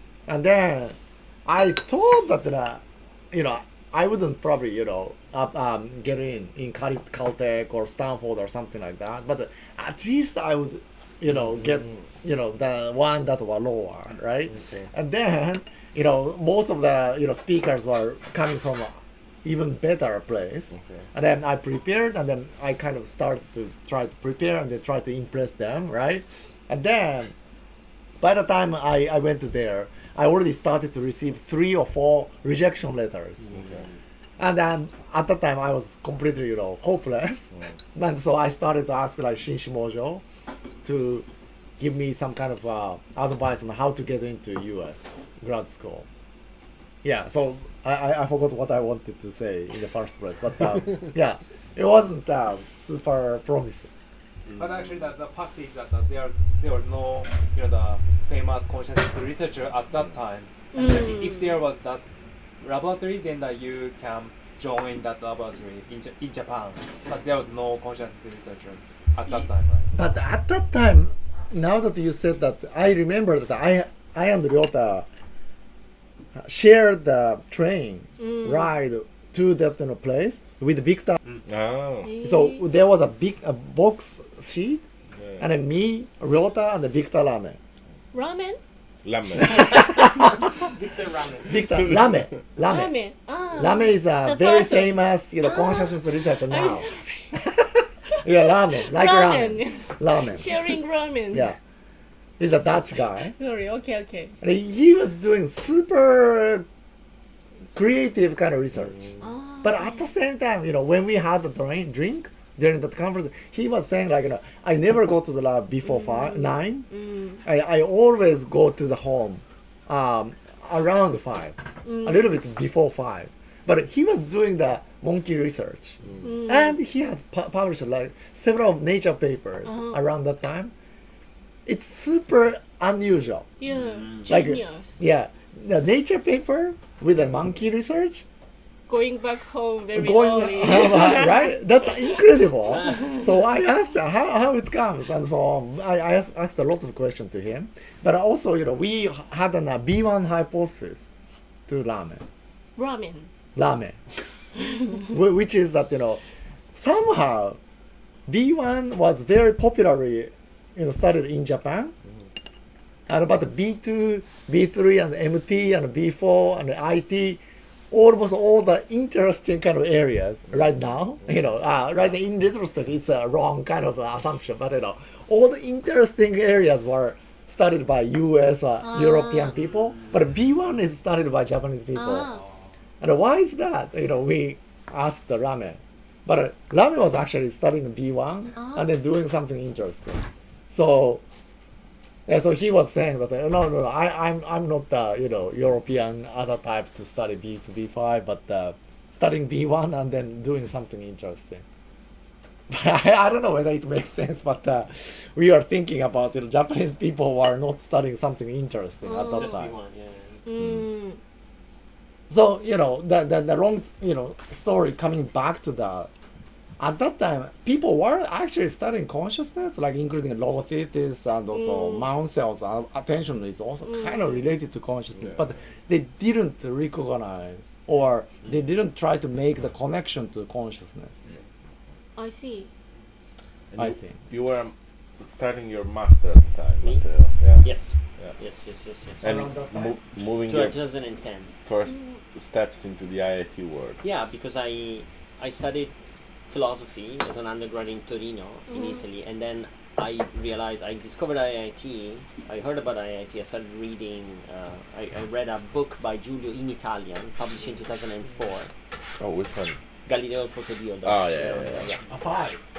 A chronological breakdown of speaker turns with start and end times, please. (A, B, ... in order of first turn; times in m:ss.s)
0:00.3-0:00.9 A
0:01.4-0:27.3 A
0:14.5-0:14.9 B
0:20.7-0:21.0 B
0:28.2-0:33.4 A
0:33.5-0:33.8 B
0:34.4-0:40.2 A
0:40.8-0:41.2 A
0:41.8-0:46.1 A
0:47.0-0:53.9 A
0:54.5-1:02.0 C
1:00.7-1:01.6 D
1:02.6-1:09.9 C
1:09.3-1:15.0 A
1:16.4-1:21.2 A
1:18.2-1:18.7 D
1:21.4-1:22.1 B
1:22.0-1:22.6 D
1:22.2-1:24.8 A
1:25.2-1:25.4 B
1:25.4-1:27.6 A
1:28.1-1:28.6 D
1:29.0-1:30.0 B
1:29.4-1:30.5 A
1:30.8-1:31.4 C
1:31.5-1:33.0 A
1:32.6-1:37.4 D
1:33.6-1:40.8 A
1:38.7-1:41.5 D
1:41.3-1:41.6 A
1:42.4-1:43.3 A
1:43.3-1:44.3 D
1:44.4-1:46.6 A
1:47.7-1:49.1 A
1:49.2-1:50.1 D
1:49.6-1:56.9 A
1:55.9-1:57.4 D
1:57.4-2:10.7 A
2:01.8-2:02.2 D
2:06.2-2:06.8 D
2:09.6-2:10.0 D
2:11.6-2:13.5 A
2:13.6-2:15.0 D
2:13.7-2:14.3 E
2:14.3-2:18.2 A
2:18.9-2:21.6 D
2:19.9-2:31.1 A
2:22.7-2:23.2 D
2:31.7-2:32.2 A
2:32.8-2:33.3 D
2:33.5-2:34.0 A
2:34.9-2:36.2 A
2:36.7-2:37.6 A
2:38.3-2:41.9 A
2:43.1-3:02.3 A
2:58.8-2:59.5 D
3:01.9-3:02.4 D
3:03.0-3:11.2 A
3:08.5-3:08.9 D
3:12.3-3:21.6 A
3:22.7-3:29.8 A
3:29.0-3:29.5 D
3:29.2-3:30.5 E
3:30.4-3:31.2 D
3:30.6-3:30.8 B
3:32.3-3:36.1 A
3:36.8-3:51.2 A
3:41.5-3:42.1 D
3:43.8-3:44.3 D
3:52.2-3:52.7 D
3:53.7-3:58.4 B
3:53.8-3:54.2 A
3:57.6-3:59.2 E
3:59.2-4:00.8 B
3:59.2-4:00.0 A
4:00.4-4:01.5 E
4:01.6-4:04.0 B
4:01.9-4:02.1 D
4:04.0-4:05.9 E
4:06.5-4:18.7 E
4:08.7-4:09.0 D
4:19.2-4:19.8 B
4:20.0-4:22.1 E
4:21.0-4:21.9 B
4:22.0-4:22.6 A